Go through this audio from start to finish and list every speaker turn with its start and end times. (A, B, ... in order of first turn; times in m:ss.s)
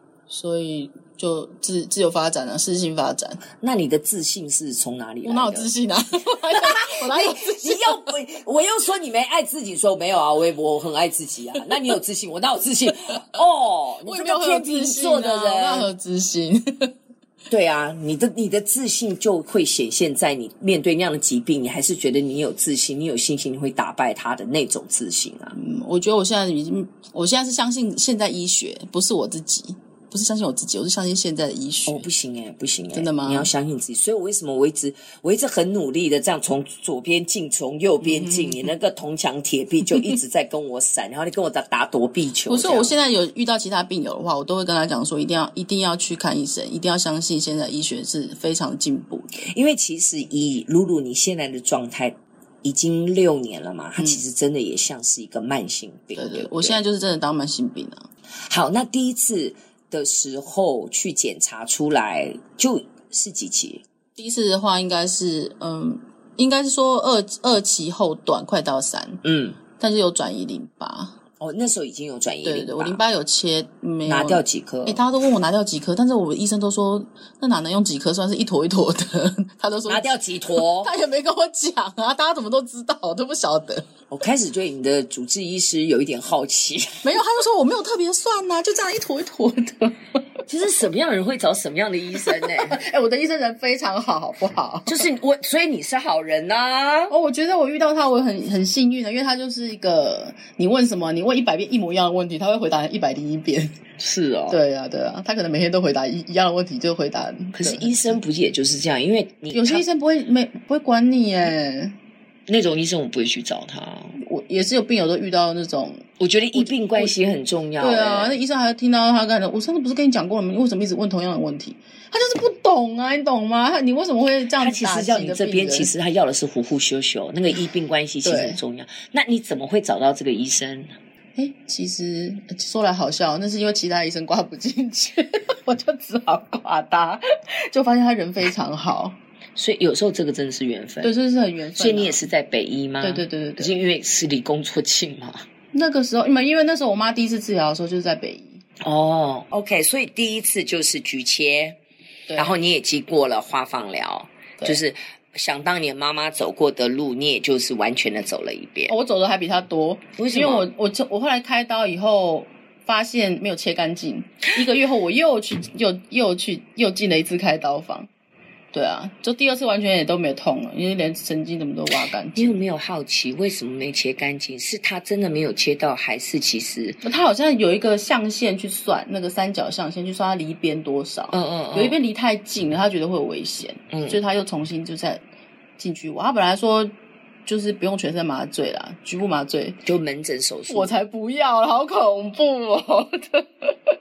0:00.3-0:03.4 A
0:03.6-0:05.7 B
0:05.2-0:08.0 A
0:06.5-0:15.9 B
0:14.0-0:16.9 A
0:17.5-0:25.6 B
0:25.6-0:32.0 A
0:31.9-0:43.0 B
0:32.9-0:33.5 A
0:38.0-0:38.7 A
0:42.5-0:49.5 A
0:49.5-0:56.8 B
0:54.0-0:54.2 A
0:56.2-0:58.1 A
0:58.5-1:03.8 B
1:04.2-1:09.2 A
1:09.2-1:09.6 B
1:09.8-1:11.2 A
1:11.4-1:13.0 B
1:12.4-1:23.8 A
1:14.1-1:15.0 B
1:19.9-1:20.9 B
1:24.1-1:27.2 B
1:27.0-1:30.0 A
1:30.5-1:32.8 B
1:32.1-1:35.1 A
1:34.9-1:37.1 B
1:37.1-1:43.8 A
1:44.0-1:44.6 B
1:44.5-1:48.2 A
1:47.6-1:49.8 B
1:49.5-1:52.0 A
1:52.5-1:54.2 B
1:54.2-1:57.2 A
1:56.2-1:58.4 B
1:57.8-2:05.9 A
2:04.6-2:11.0 B
2:08.2-2:08.6 A
2:11.4-2:19.2 A
2:19.6-2:21.2 B
2:21.0-2:22.2 A
2:21.8-2:25.5 B
2:23.0-2:23.8 A
2:25.7-2:28.6 A
2:28.8-2:31.8 B
2:32.3-2:32.6 A
2:32.4-2:39.0 B
2:38.9-2:48.1 A
2:40.2-2:40.7 B
2:48.7-2:52.6 A
2:52.4-2:57.0 B
2:57.0-3:05.2 A
3:01.3-3:02.0 B
3:03.9-3:04.2 B
3:05.8-3:06.9 A
3:07.5-3:09.8 A
3:09.8-3:10.9 B
3:10.7-3:13.7 A